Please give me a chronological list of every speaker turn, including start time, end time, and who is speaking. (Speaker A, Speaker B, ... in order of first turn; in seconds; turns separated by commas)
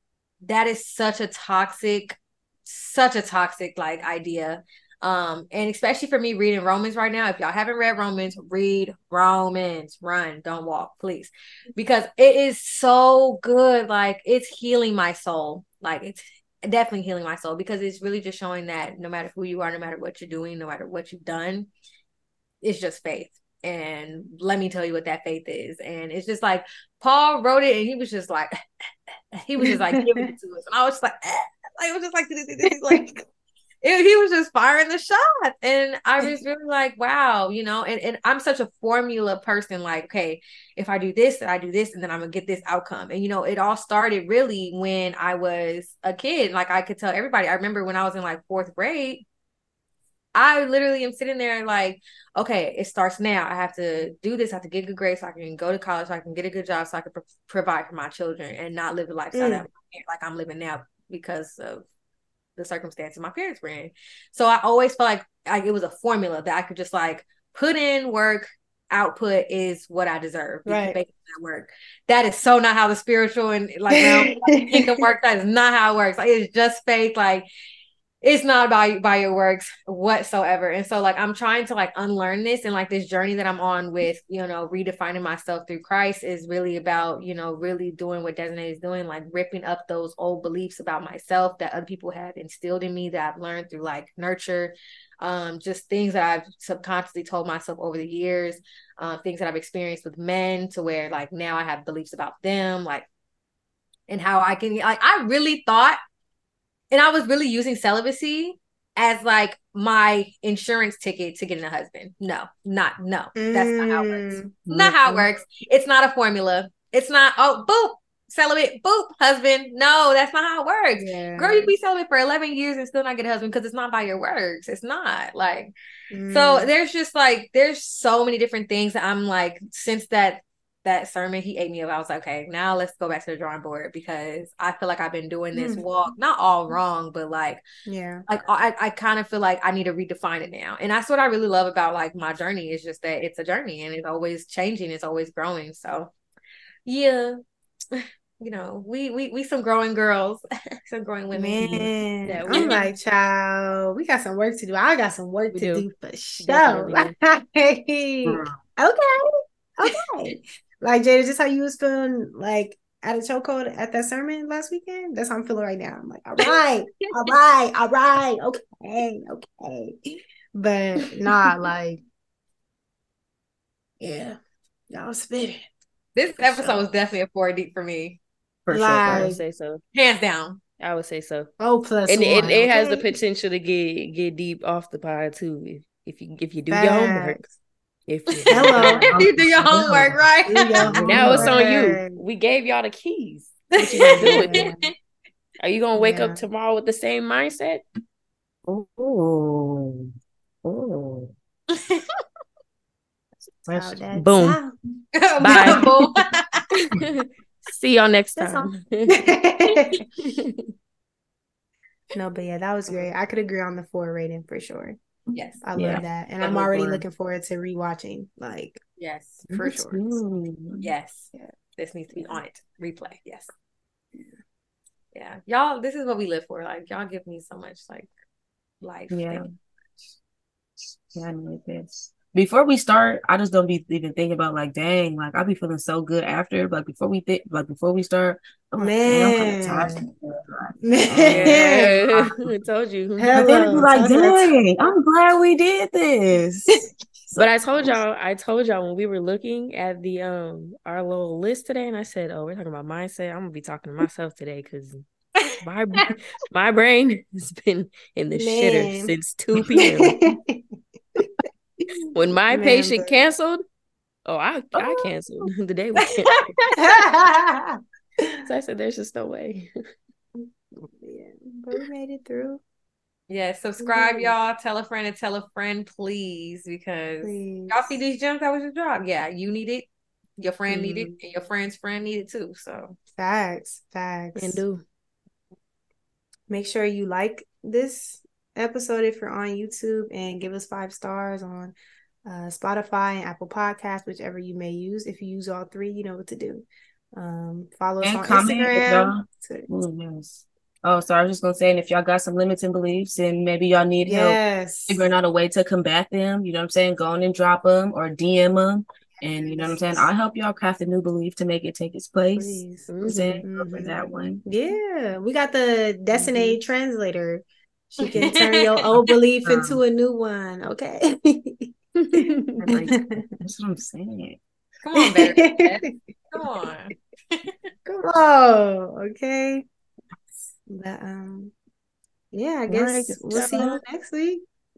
Speaker A: 0.4-21.7, Speaker A: 22.6-28.5, Speaker A: 29.3-33.2, Speaker B: 29.6-30.3, Speaker B: 32.7-33.2, Speaker A: 33.8-49.2, Speaker A: 50.3-61.9, Speaker B: 59.3-59.7, Speaker A: 62.6-77.5, Speaker B: 70.7-71.0, Speaker B: 73.9-75.0, Speaker A: 78.2-103.1, Speaker A: 104.1-106.0, Speaker A: 106.9-125.7, Speaker B: 113.3-114.5, Speaker C: 114.7-115.3, Speaker B: 121.0-121.7, Speaker B: 126.1-126.7, Speaker A: 126.3-137.6, Speaker B: 135.5-135.8, Speaker B: 137.8-138.2, Speaker A: 138.3-146.1, Speaker A: 146.8-147.4, Speaker A: 147.9-151.9, Speaker B: 151.3-159.3, Speaker D: 152.3-152.9, Speaker A: 152.5-152.8, Speaker D: 155.5-155.9, Speaker D: 156.4-157.1, Speaker C: 158.2-158.6, Speaker B: 159.8-172.0, Speaker B: 174.0-174.4, Speaker B: 174.9-175.6, Speaker A: 176.2-178.2, Speaker B: 176.4-176.8, Speaker C: 178.7-179.3, Speaker B: 178.7-179.4, Speaker D: 179.0-179.8, Speaker A: 179.9-180.6, Speaker D: 180.8-181.5, Speaker B: 181.6-183.0, Speaker D: 182.1-187.5, Speaker B: 186.7-187.5, Speaker D: 188.1-189.2, Speaker A: 188.3-191.4, Speaker B: 188.5-189.1, Speaker C: 189.1-190.2, Speaker B: 190.5-192.2, Speaker C: 190.8-191.5, Speaker D: 191.1-194.7, Speaker A: 193.8-194.9, Speaker B: 194.1-194.9, Speaker D: 195.6-197.8, Speaker B: 195.9-196.4, Speaker C: 198.6-200.1, Speaker C: 200.6-201.3, Speaker A: 201.7-202.1, Speaker C: 203.7-204.0, Speaker B: 203.7-204.7, Speaker D: 204.1-204.6, Speaker A: 205.1-206.6, Speaker D: 205.4-205.8, Speaker D: 206.8-209.2, Speaker B: 208.4-210.0, Speaker D: 210.2-210.7, Speaker B: 212.1-215.0, Speaker A: 215.3-215.6, Speaker B: 215.6-218.8, Speaker C: 215.8-217.0, Speaker A: 219.0-220.2, Speaker C: 219.5-220.9, Speaker A: 220.8-223.5, Speaker B: 222.1-222.4, Speaker A: 225.1-228.1, Speaker A: 228.8-229.4, Speaker C: 229.1-229.5, Speaker C: 231.1-241.8, Speaker B: 238.8-240.0, Speaker B: 240.8-242.0, Speaker D: 241.2-243.3, Speaker B: 243.2-244.5, Speaker C: 243.3-247.5, Speaker D: 247.4-255.1, Speaker D: 255.6-260.1, Speaker B: 258.3-259.1, Speaker B: 259.8-260.6, Speaker D: 262.1-263.6, Speaker B: 262.5-263.2, Speaker D: 264.2-266.5, Speaker C: 264.8-265.0, Speaker B: 266.8-268.4, Speaker D: 268.4-269.7, Speaker B: 270.4-272.6, Speaker A: 273.3-279.9, Speaker B: 273.8-274.3, Speaker B: 277.2-278.0, Speaker A: 280.4-283.0, Speaker B: 280.7-281.1, Speaker B: 283.1-284.6, Speaker D: 284.4-284.8, Speaker B: 286.5-291.7, Speaker B: 292.2-299.7, Speaker C: 298.0-314.4, Speaker B: 304.0-305.1, Speaker B: 309.2-310.1, Speaker B: 312.3-312.9, Speaker D: 312.9-313.4, Speaker B: 313.4-322.3, Speaker D: 316.1-316.6, Speaker A: 318.2-318.9, Speaker C: 319.0-319.8, Speaker D: 322.0-322.9, Speaker C: 322.6-324.4, Speaker B: 322.9-323.3, Speaker A: 324.8-327.5, Speaker B: 325.0-326.4, Speaker B: 327.9-329.6, Speaker B: 330.7-331.5, Speaker B: 332.3-334.4, Speaker D: 332.7-333.8